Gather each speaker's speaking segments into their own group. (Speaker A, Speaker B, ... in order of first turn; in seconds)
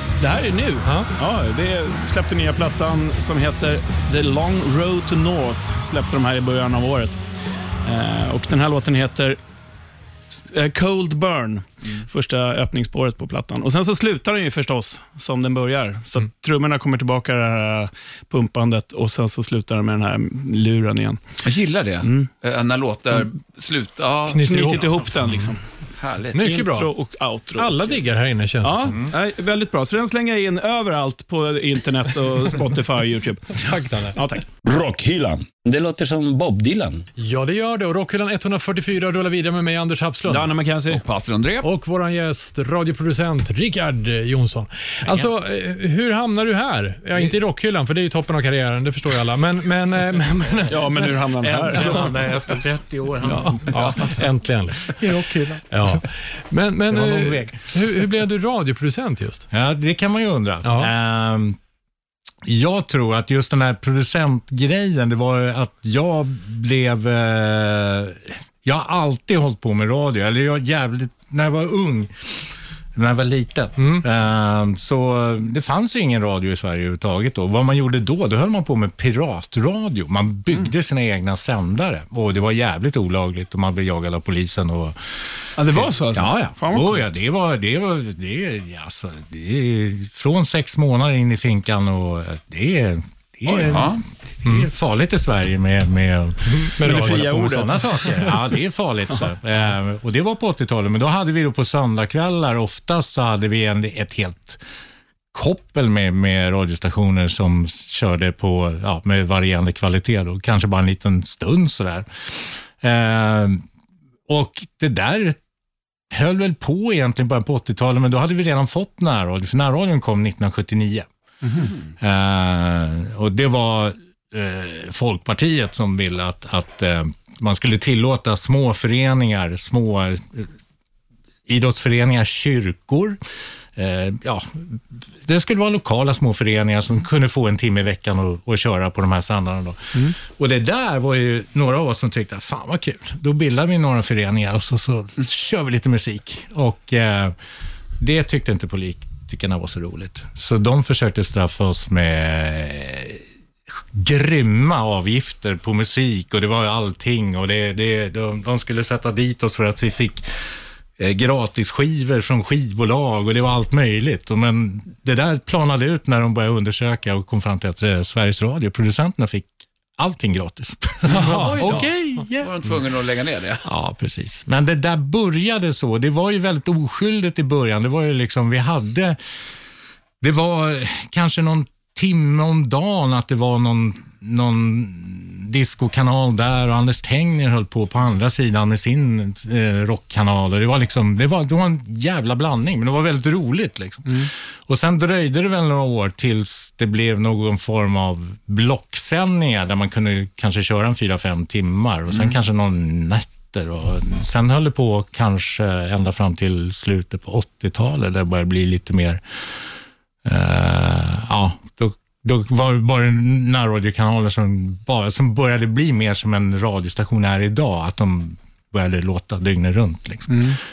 Speaker A: 0.2-7.2, 7.8-9.4, 10.3-21.2, 22.0-22.3, 24.3-25.6, 26.4-28.0, 28.6-34.5, 40.3-41.0, 50.7-52.1, 53.2-53.9, 85.5-87.0, 96.8-98.4, 220.3-220.6
Speaker B: 0.8-1.1, 24.3-25.6, 26.3-26.9, 27.6-28.9, 33.6-34.2, 37.2-40.5, 41.6-51.1, 51.7-52.0, 53.4-55.0, 55.7-59.5, 60.6-60.9, 73.8-74.0, 96.5-97.3, 171.1-171.8
Speaker C: 21.4-24.4, 26.0-26.6, 40.9-41.7, 93.5-94.0, 171.1-173.6
Speaker D: 34.6-37.0
Speaker E: 51.4-54.2, 54.8-56.0, 56.9-58.0, 59.5-61.6, 62.4-104.6, 105.3-113.6, 114.3-115.4, 116.1-121.1, 122.0-130.5, 131.5-133.2, 133.8-147.3, 148.0-160.2, 161.0-172.7, 173.6-179.2, 180.2-209.6, 210.2-220.6